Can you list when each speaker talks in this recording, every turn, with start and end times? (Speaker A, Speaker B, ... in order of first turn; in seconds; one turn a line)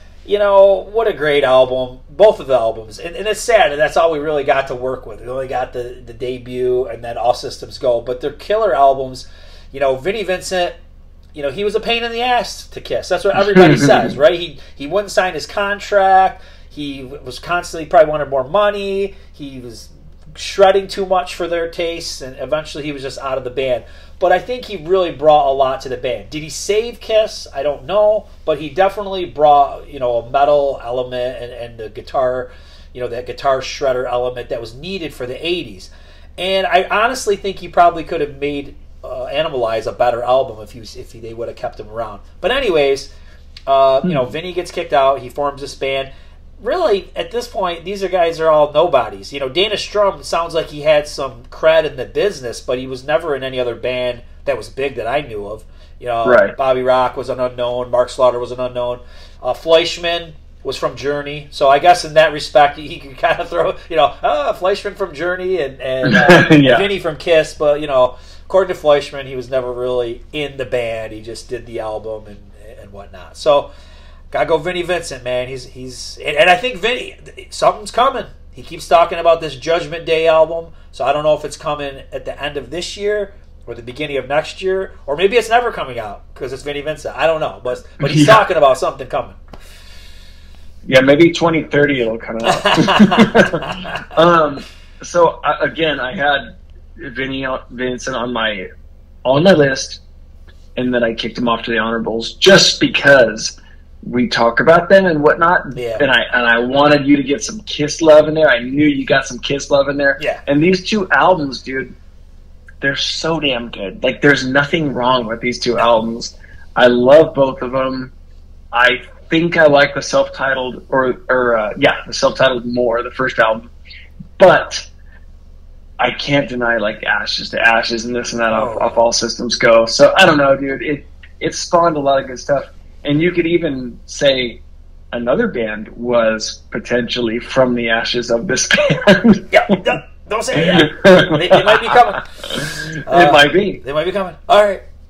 Speaker A: 0.2-10.8
Speaker A: 11.3-43.1
Speaker B: 13.5-14.1
Speaker A: 43.7-46.1
Speaker A: 46.6-73.7
Speaker B: 56.2-56.6
Speaker B: 66.0-66.9
Speaker A: 74.3-89.4
Speaker B: 88.0-88.5
Speaker B: 90.8-98.7
Speaker A: 92.5-93.7
Speaker B: 99.2-100.0
Speaker B: 100.8-112.0
Speaker A: 105.7-106.0
Speaker A: 110.2-110.4
Speaker B: 112.8-118.1
Speaker B: 118.7-123.7
Speaker B: 124.4-124.9
Speaker B: 126.0-139.5
Speaker A: 128.5-129.0
Speaker A: 139.5-144.8
Speaker B: 140.5-143.8